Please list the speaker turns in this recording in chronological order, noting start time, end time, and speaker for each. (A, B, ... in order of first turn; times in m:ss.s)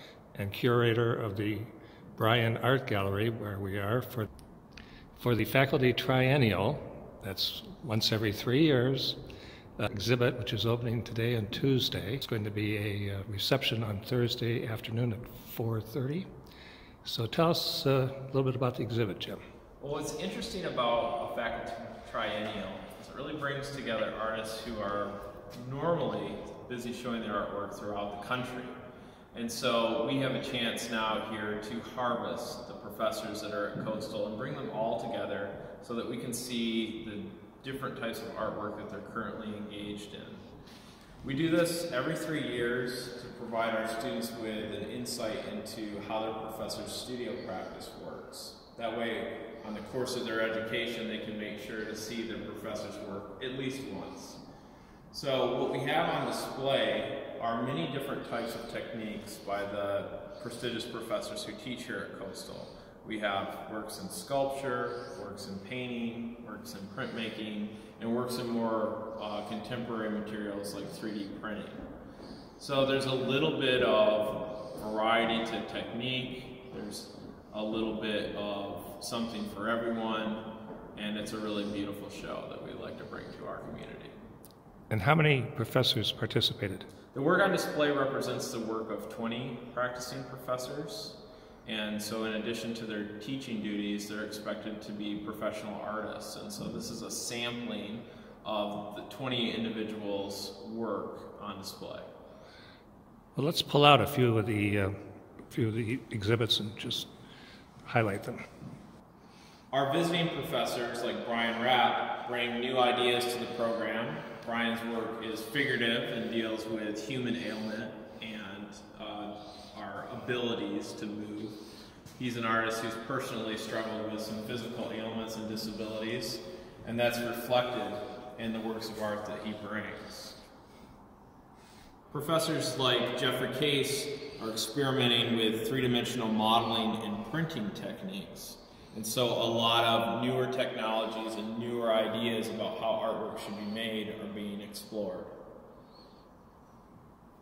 0:00.3-0:04.3 A
0:05.2-0:09.2 A
0:09.8-0:16.3 A
0:17.0-0:19.4 A
0:19.8-0:28.7 B
0:29.3-0:40.4 B
0:41.2-0:54.4 B
0:55.1-1:11.8 B
1:12.6-1:24.1 B
1:24.9-1:26.9 A
1:27.1-1:42.1 B
1:43.4-1:45.0 A
1:45.5-1:47.1 A
1:47.8-1:48.4 A
1:49.7-2:01.6 B
2:02.2-2:10.4 B
2:12.1-2:25.3 B